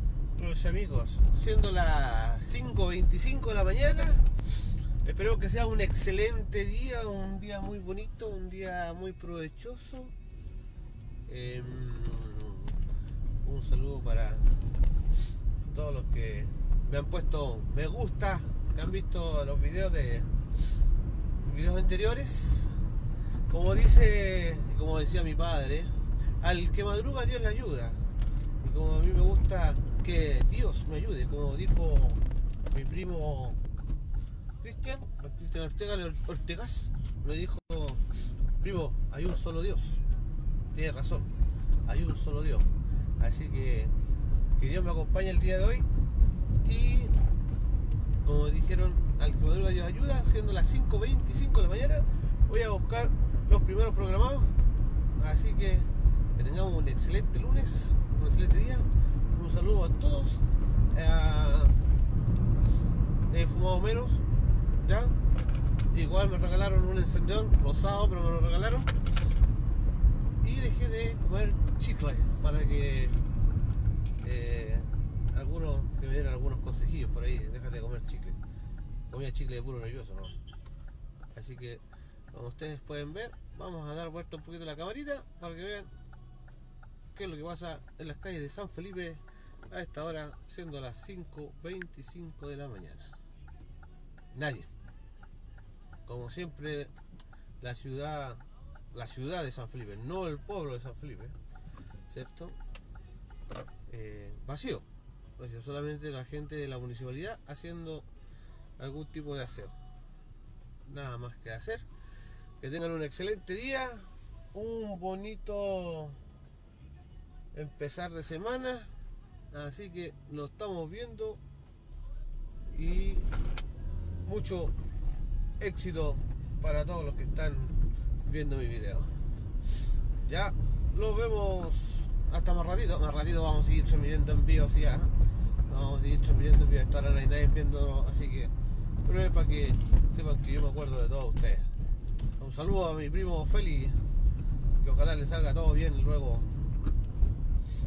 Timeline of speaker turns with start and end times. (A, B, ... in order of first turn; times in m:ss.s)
0:00.4-0:04.2 A
0:05.0-0:10.1 A
0:11.3-0:12.8 A
0:13.4-0:14.7 A
0:15.7-0:20.3 A
0:21.4-0:22.8 A
0:23.5-0:28.1 A
0:28.6-0:33.6 A
0:34.6-0:38.0 A
0:38.6-0:40.0 A
0:40.7-0:41.3 A
0:41.8-0:43.9 A
0:44.6-0:45.9 A
0:46.6-0:47.1 A
0:48.2-0:54.6 A
0:55.2-1:01.8 A
1:03.3-1:04.2 A
1:04.8-1:05.2 A
1:05.9-1:08.9 A
1:10.4-1:13.2 A
1:14.2-1:18.4 A
1:19.1-1:20.4 A
1:21.3-1:25.9 A
1:27.1-1:33.1 A
1:34.3-1:34.7 A
1:36.0-1:36.9 A
1:37.6-1:41.3 A
1:42.1-1:42.6 A
1:43.9-1:44.8 A
1:45.4-1:48.0 A
1:48.8-1:49.7 A
1:50.8-1:51.8 A
1:52.6-1:56.2 A
1:57.5-1:58.9 A
1:59.5-2:01.4 A
2:02.7-2:03.4 A
2:04.2-2:04.7 A
2:05.6-2:09.2 A
2:10.2-2:15.1 A
2:15.7-2:18.5 A
2:19.0-2:21.7 A
2:22.4-2:24.0 A
2:24.8-2:26.5 A